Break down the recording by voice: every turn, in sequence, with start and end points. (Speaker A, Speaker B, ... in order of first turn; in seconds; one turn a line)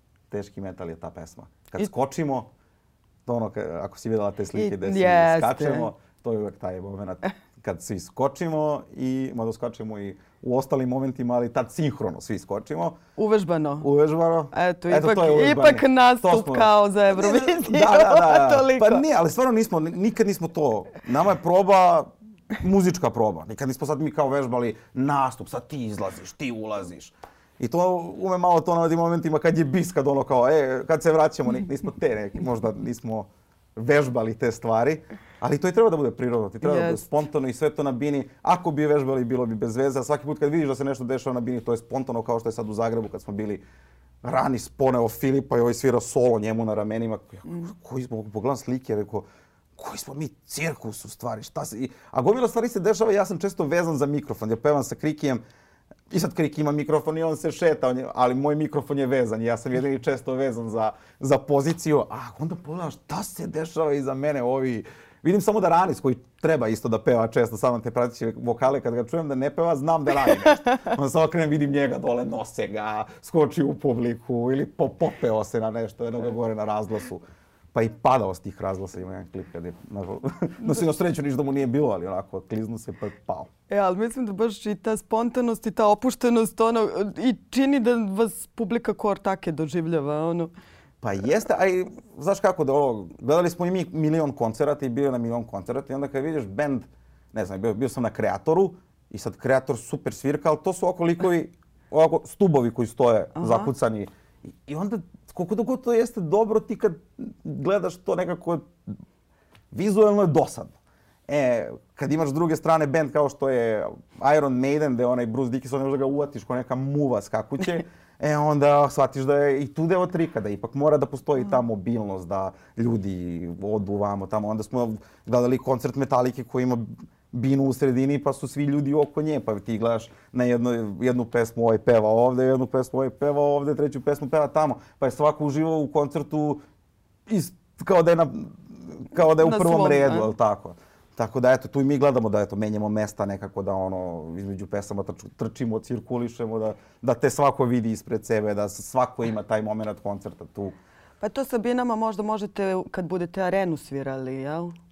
Speaker A: 0.3-2.5
Speaker A: 3.2-13.0
Speaker B: 4.5-5.9
Speaker B: 13.2-13.9
Speaker A: 13.8-43.6
Speaker B: 14.5-19.0
Speaker B: 36.6-37.0
Speaker A: 44.2-55.4
Speaker A: 56.1-77.2
Speaker A: 77.7-83.5
Speaker B: 83.7-90.5
Speaker A: 91.0-104.1
Speaker B: 103.4-103.7
Speaker A: 104.6-108.7
Speaker A: 109.7-110.8
Speaker A: 111.3-136.6
Speaker A: 137.3-150.8
Speaker B: 139.2-140.3
Speaker B: 151.2-154.7